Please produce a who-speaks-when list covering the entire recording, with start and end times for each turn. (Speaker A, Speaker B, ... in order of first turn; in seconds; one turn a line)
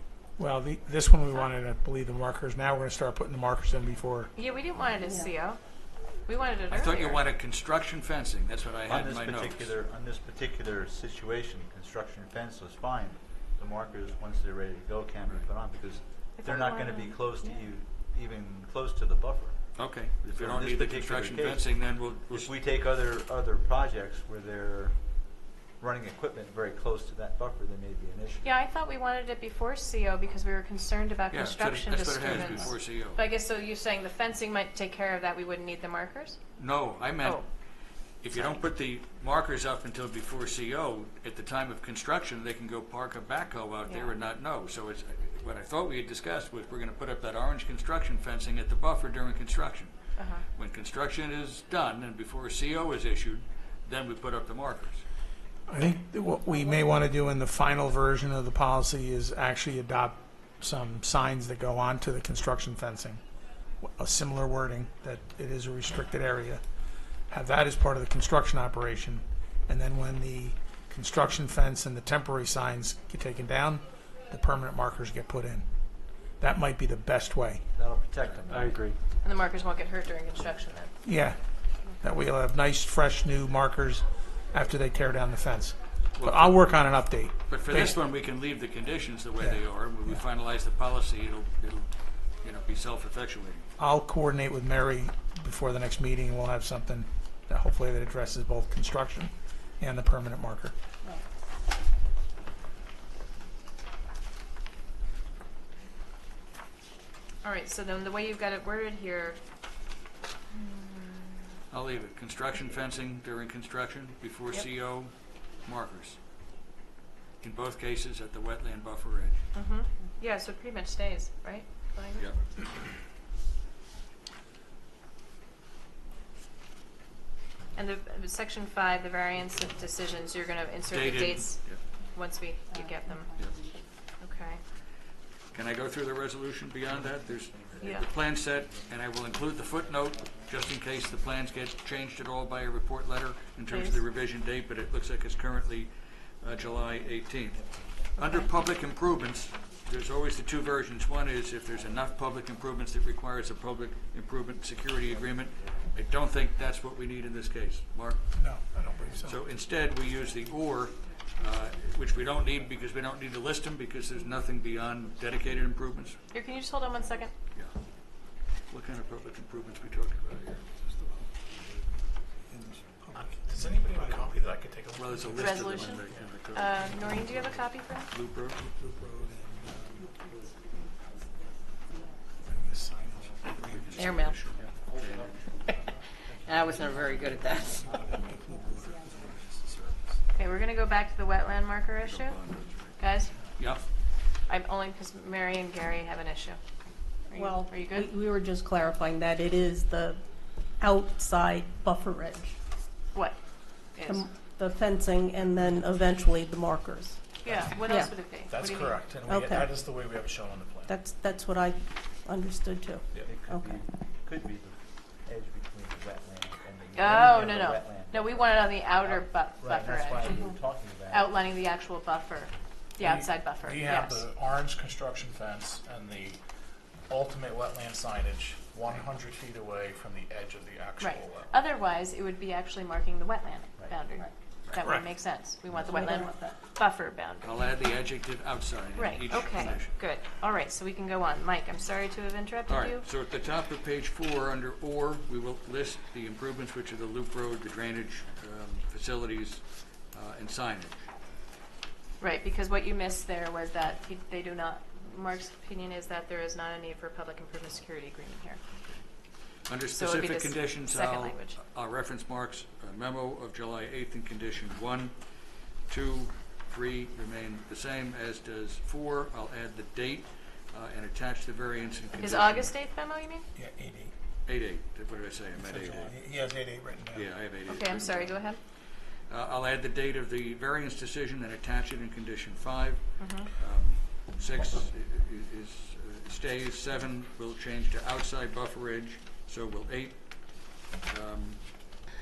Speaker A: 0.4-4.3
Speaker B: 4.3-7.3
Speaker C: 5.0-5.3
Speaker D: 6.7-9.7
Speaker E: 8.9-19.6
Speaker B: 16.4-17.2
Speaker D: 19.8-22.5
Speaker E: 20.3-25.0
Speaker E: 25.8-28.5
Speaker B: 28.4-36.4
Speaker D: 31.3-33.2
Speaker D: 36.6-37.6
Speaker D: 38.2-50.0
Speaker E: 38.3-38.6
Speaker B: 43.9-44.1
Speaker B: 50.2-50.4
Speaker D: 50.5-55.0
Speaker A: 55.7-63.2
Speaker A: 63.8-66.6
Speaker A: 67.3-75.7
Speaker A: 76.4-77.7
Speaker E: 77.8-78.9
Speaker B: 79.2-81.0
Speaker A: 81.0-88.0
Speaker D: 86.1-86.7
Speaker D: 87.5-93.7
Speaker A: 89.4-90.2
Speaker A: 93.8-100.7
Speaker B: 107.4-109.4
Speaker B: 110.6-111.3
Speaker D: 111.7-116.2
Speaker D: 117.4-119.5
Speaker B: 119.5-122.3
Speaker B: 127.7-133.3
Speaker F: 129.5-130.9
Speaker D: 130.9-131.8
Speaker C: 133.1-133.4
Speaker B: 134.2-134.6
Speaker D: 135.5-158.2
Speaker F: 136.9-141.7
Speaker B: 137.8-138.1
Speaker B: 143.7-144.0
Speaker F: 146.5-150.5
Speaker F: 151.6-152.5
Speaker F: 154.9-156.4
Speaker A: 158.3-159.4
Speaker D: 159.2-166.2
Speaker F: 159.2-166.3
Speaker B: 166.3-167.3
Speaker F: 166.8-167.3
Speaker D: 168.7-171.3
Speaker F: 169.4-173.2
Speaker A: 172.5-175.6
Speaker G: 173.2-176.4
Speaker D: 174.9-177.0
Speaker B: 175.3-178.1
Speaker A: 176.9-177.6
Speaker D: 178.1-178.6
Speaker A: 178.6-180.1
Speaker F: 179.1-182.0
Speaker A: 182.4-184.7
Speaker F: 182.7-188.7
Speaker D: 183.8-185.4
Speaker A: 187.6-189.9
Speaker B: 190.3-192.4
Speaker D: 192.0-193.0
Speaker B: 193.0-193.3
Speaker D: 193.6-193.8
Speaker B: 194.3-196.6
Speaker B: 197.3-198.1
Speaker C: 197.3-202.6
Speaker B: 203.1-203.4
Speaker B: 203.9-204.3
Speaker C: 204.1-208.3
Speaker B: 207.4-209.1
Speaker G: 207.4-210.9
Speaker C: 209.2-209.7
Speaker C: 210.9-213.8
Speaker E: 213.1-221.3
Speaker B: 216.9-220.5
Speaker B: 221.1-224.2
Speaker G: 223.0-226.4
Speaker G: 227.1-231.6
Speaker B: 231.0-237.5
Speaker A: 234.8-235.1
Speaker E: 235.7-236.1
Speaker C: 235.8-236.6
Speaker D: 237.4-240.0
Speaker B: 239.0-243.0
Speaker D: 242.7-251.0
Speaker B: 252.2-258.6
Speaker D: 259.7-265.2
Speaker B: 259.9-261.6
Speaker D: 265.9-272.7
Speaker B: 272.2-273.5
Speaker A: 273.6-274.1
Speaker D: 274.5-276.1
Speaker A: 275.6-277.3
Speaker D: 277.1-278.4
Speaker B: 277.7-278.6
Speaker D: 279.3-292.0
Speaker B: 283.2-283.5